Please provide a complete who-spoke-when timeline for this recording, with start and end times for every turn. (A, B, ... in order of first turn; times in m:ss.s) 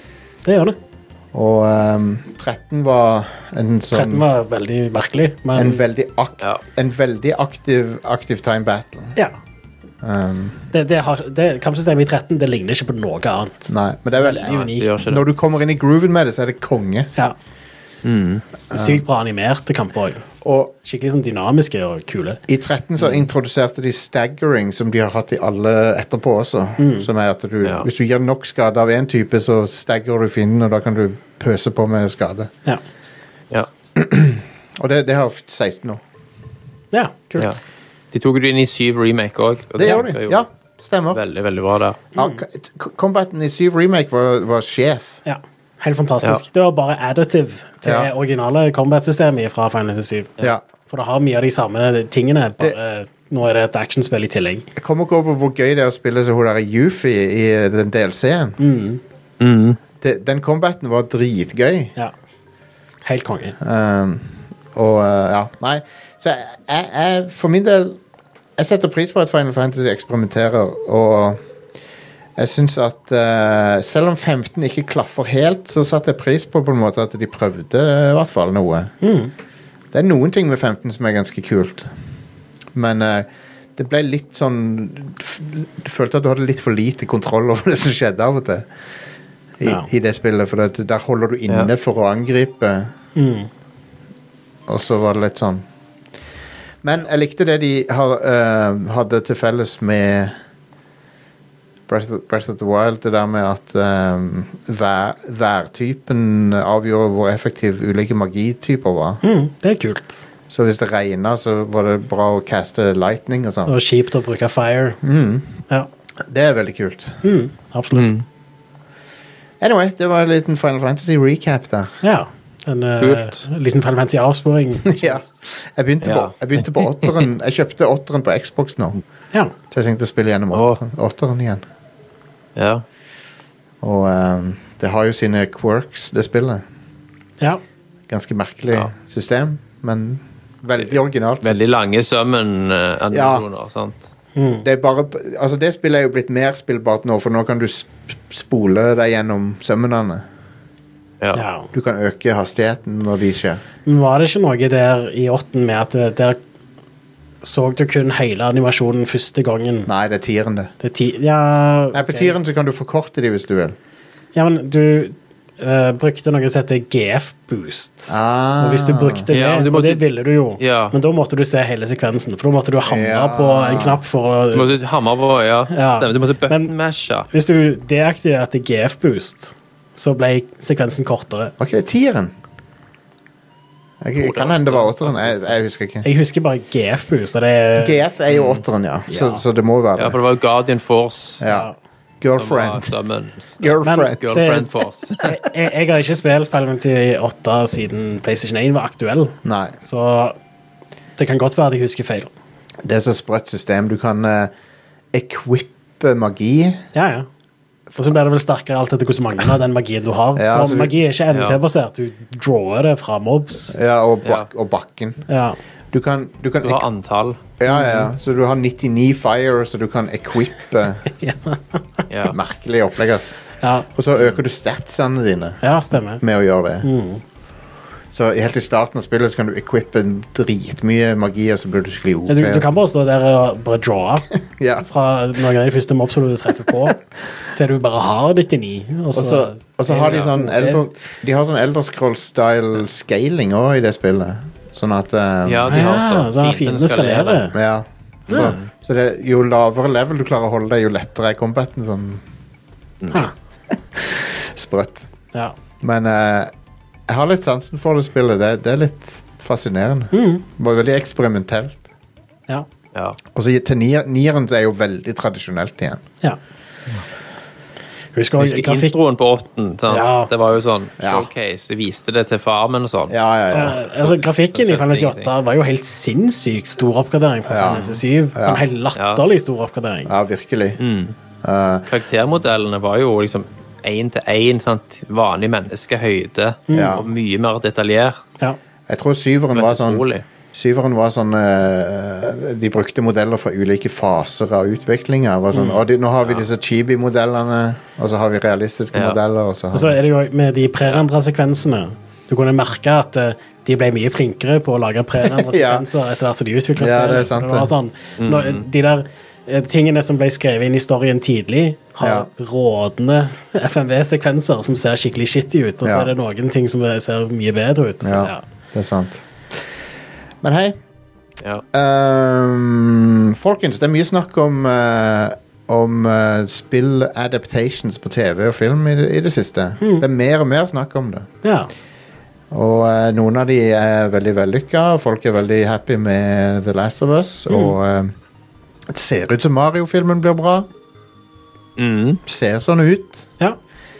0:00.4-0:00.8 A
0:01.3-0:04.2 B
0:03.9-0:05.8 A
0:05.6-0:09.2 B
0:10.0-0:10.6 B
0:10.7-0:15.0 A
0:13.7-0:17.1 B
0:14.4-0:15.2 C
0:18.0-0:18.4 C
0:18.7-0:20.3 A
0:18.7-0:19.0 B
0:20.4-0:20.7 B
0:20.8-0:22.4 A
0:22.5-0:32.5 B
0:26.8-0:27.1 A
0:34.0-0:36.0 B
0:36.9-0:37.6 A
0:38.1-0:40.5 C
0:39.8-0:41.2 B
0:41.1-0:42.0 C
0:42.2-0:45.2 B
0:45.2-0:50.3 A
0:47.8-0:48.1 B
0:50.9-0:54.7 A
0:54.8-0:58.6 B
0:58.6-0:59.0 A
0:59.4-0:59.8 C
1:00.0-1:01.9 B
1:03.0-1:03.6 A
1:03.6-1:08.0 B
1:08.6-1:11.4 B
1:12.4-1:19.0 B
1:19.0-1:19.3 A
1:19.9-1:21.9 B
1:22.7-1:28.7 B
1:29.6-1:32.9 B
1:33.2-1:33.5 A
1:34.7-1:35.6 B
1:36.8-1:40.4 B
1:41.9-1:49.2 B
1:49.2-1:50.2 A
1:50.5-1:53.8 B
1:53.7-1:55.0 A
1:55.0-1:55.6 B
1:56.2-1:57.2 B
1:57.2-1:58.1 A
1:58.0-1:58.2 C
1:59.6-2:02.0 B
2:02.0-2:05.3 A
2:03.0-2:03.4 C
2:04.9-2:09.0 B
2:06.0-2:07.2 C
2:09.7-2:11.6 B
2:10.5-2:10.8 C
2:12.6-2:12.8 C
2:13.8-2:16.6 B
2:18.1-2:21.6 B
2:21.4-2:24.0 C
2:23.1-2:23.4 B
2:24.4-2:24.6 A
2:24.6-2:30.2 B
2:31.3-2:31.7 A
2:31.7-2:33.6 B
2:33.8-2:36.4 A
2:37.4-2:39.9 A
2:39.9-2:40.7 B
2:40.8-2:42.3 A
2:41.9-2:43.8 B
2:44.4-2:54.8 A
2:48.1-2:49.3 B
2:49.3-2:50.0 C
2:50.6-2:51.0 C
2:52.8-2:54.0 B
2:54.5-2:57.3 C
2:55.7-2:56.7 A
2:57.3-3:01.5 A
3:01.6-3:02.3 B
3:04.0-3:06.1 B
3:04.2-3:05.5 C
3:06.0-3:08.0 A
3:07.8-3:10.2 B
3:08.3-3:08.6 C
3:09.1-3:09.4 A
3:10.0-3:11.4 C
3:11.4-3:11.7 B
3:11.4-3:11.7 A
3:12.2-3:13.0 B
3:12.4-3:15.3 C
3:13.6-3:14.4 B
3:13.8-3:20.4 A
3:19.4-3:19.8 B
3:21.2-3:22.3 A
3:22.8-3:24.5 B
3:25.1-3:26.8 B
3:26.9-3:27.3 A
3:28.0-3:33.8 A
3:30.4-3:30.9 B
3:31.3-3:31.6 C
3:33.7-3:35.3 B
3:35.3-3:35.6 A
3:35.9-3:36.8 B
3:36.6-3:37.4 C
3:37.6-3:41.1 B
3:37.7-3:38.0 A
3:41.1-3:42.0 A
3:42.1-3:42.4 C
3:42.3-3:43.4 B
3:43.6-3:43.9 A
3:44.0-3:45.6 B
3:45.6-3:46.2 A
3:46.2-3:46.9 B
3:46.8-3:47.2 A
3:48.1-3:52.7 B
3:52.3-3:54.3 A
3:54.5-3:54.9 B
3:54.8-4:00.8 A
3:59.1-4:05.8 B
4:05.4-4:07.5 C
4:05.7-4:07.6 A
4:07.5-4:12.2 B
4:08.3-4:08.6 A
4:08.3-4:08.7 C
4:13.7-4:15.1 B
4:15.8-4:16.5 B
4:17.1-4:21.8 B
4:20.1-4:20.4 A
4:23.3-4:26.0 B
4:28.2-4:29.0 A
4:28.4-4:35.3 C
4:29.9-4:30.3 A
4:31.0-4:31.3 B
4:33.1-4:33.8 B
4:33.5-4:40.1 A
4:37.5-4:38.6 B
4:39.0-4:39.2 C
4:40.1-4:40.8 B
4:40.8-4:41.2 C
4:41.4-4:41.9 B
4:41.9-4:48.3 C
4:46.7-4:47.0 A
4:46.7-4:47.1 B
4:48.9-5:00.0 B
4:49.5-4:50.2 C
4:58.9-4:59.2 C
4:59.7-5:18.4 A
5:05.2-5:05.9 B
5:06.8-5:07.7 B
5:08.2-5:08.6 C
5:12.0-5:12.3 B
5:15.8-5:16.1 B
5:18.0-5:19.6 B
5:20.4-5:20.8 B
5:21.7-5:31.3 B
5:29.8-5:30.0 A
5:31.4-5:31.7 A
5:32.5-5:38.1 B
5:38.9-5:40.7 B
5:41.8-5:42.2 C
5:42.3-5:43.3 B